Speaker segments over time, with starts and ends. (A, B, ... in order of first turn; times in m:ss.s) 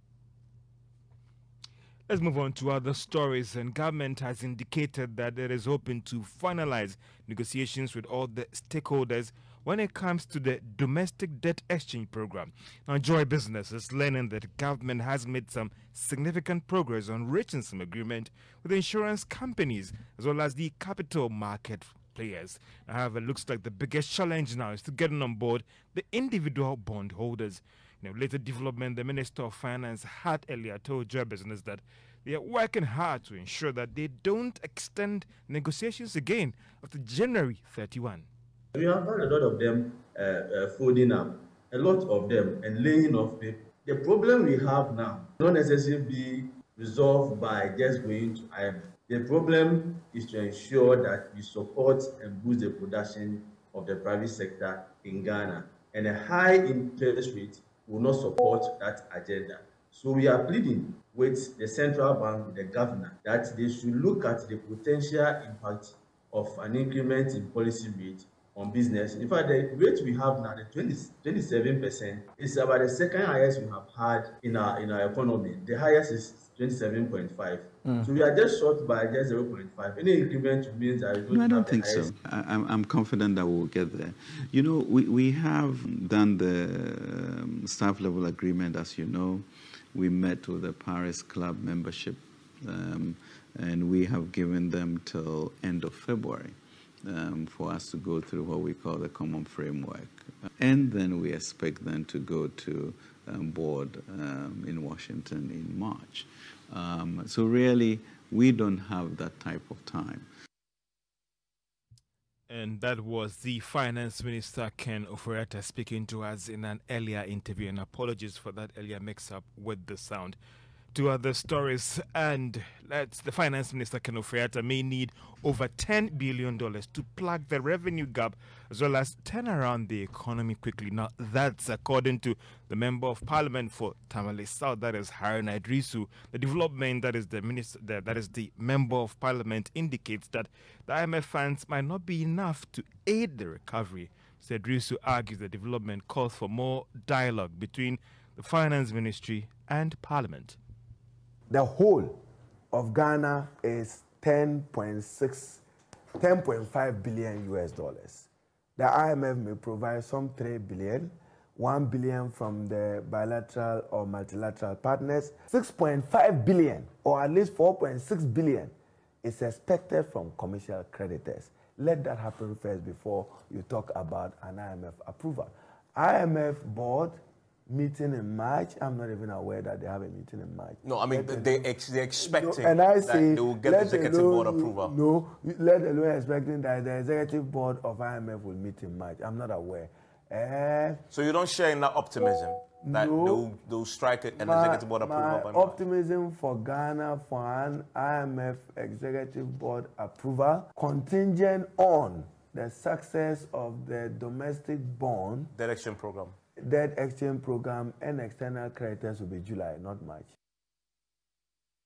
0:02.1-0:38.3 A
0:38.7-1:22.1 B
1:21.3-1:50.3 C
1:52.5-2:00.4 A
2:00.9-2:30.6 A
2:31.5-2:32.2 D
2:32.7-2:35.6 D
2:36.1-3:11.0 D
3:00.8-3:05.0 E
3:11.1-3:15.8 E
3:12.8-3:13.5 D
3:14.4-3:25.5 D
3:25.5-3:26.3 E
3:26.6-3:30.3 D